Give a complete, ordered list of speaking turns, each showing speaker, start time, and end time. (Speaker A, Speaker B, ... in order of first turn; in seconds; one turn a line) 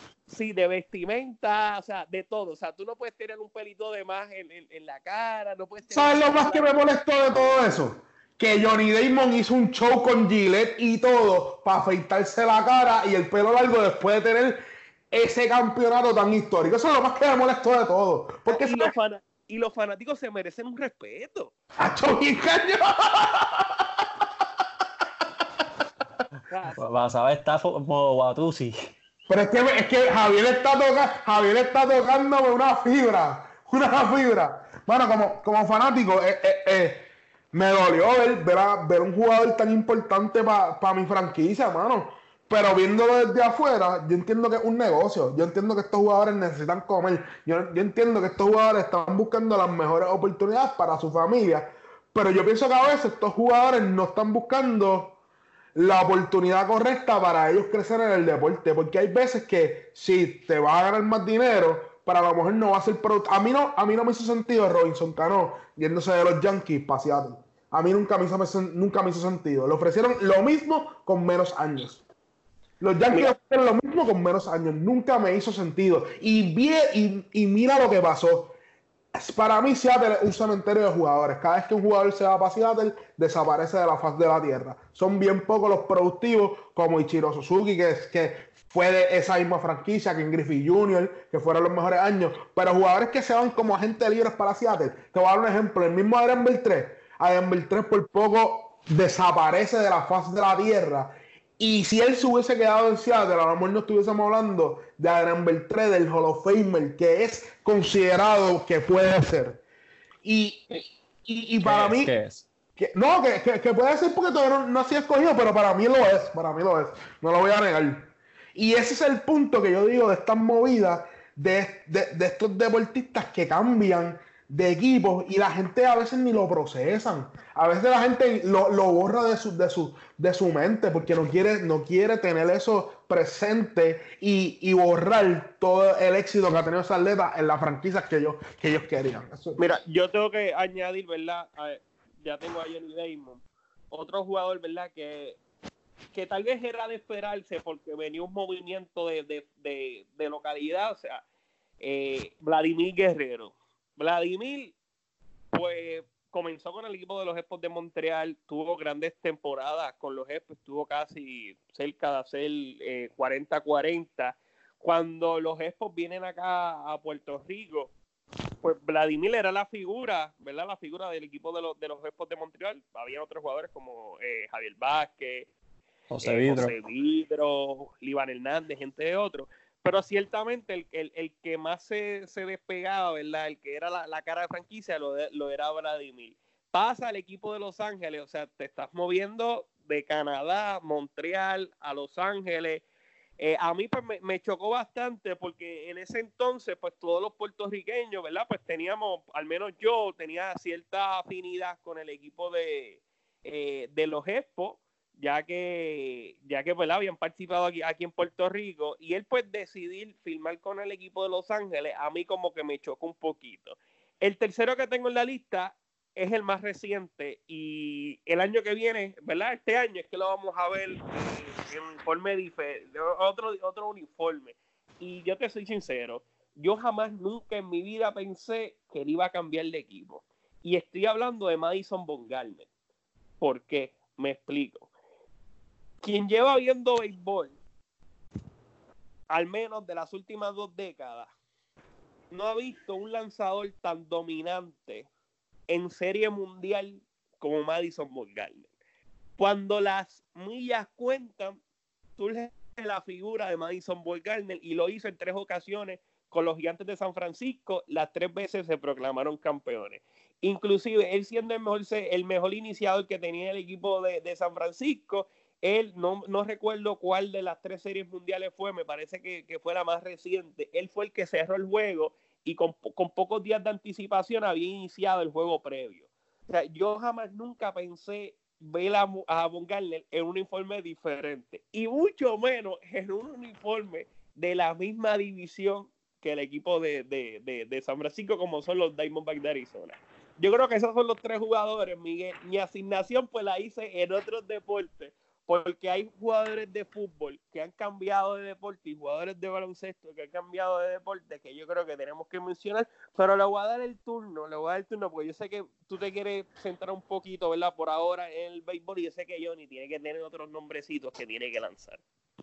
Speaker A: 0.3-6.8
Speaker B: 5.9-18.9
Speaker A: 18.5-21.5
Speaker B: 21.8-24.0
Speaker A: 26.5-26.8
Speaker C: 26.7-28.9
Speaker B: 29.3-55.2
Speaker B: 55.8-72.0
Speaker B: 72.8-78.5
Speaker B: 79.1-109.6
Speaker B: 110.2-110.7
Speaker B: 111.2-112.1
Speaker C: 111.6-112.5
Speaker B: 112.8-139.6
Speaker A: 139.6-145.4
Speaker A: 146.1-151.2
Speaker A: 151.8-154.8
Speaker A: 155.5-167.9
Speaker A: 168.6-175.5
Speaker C: 176.1-176.7
Speaker A: 176.2-192.8
Speaker A: 193.4-232.7
Speaker A: 233.4-234.9
Speaker A: 236.0-237.6
Speaker A: 239.3-241.3
Speaker A: 242.3-245.1
Speaker A: 245.7-248.7
Speaker A: 249.4-251.6
Speaker A: 252.2-312.0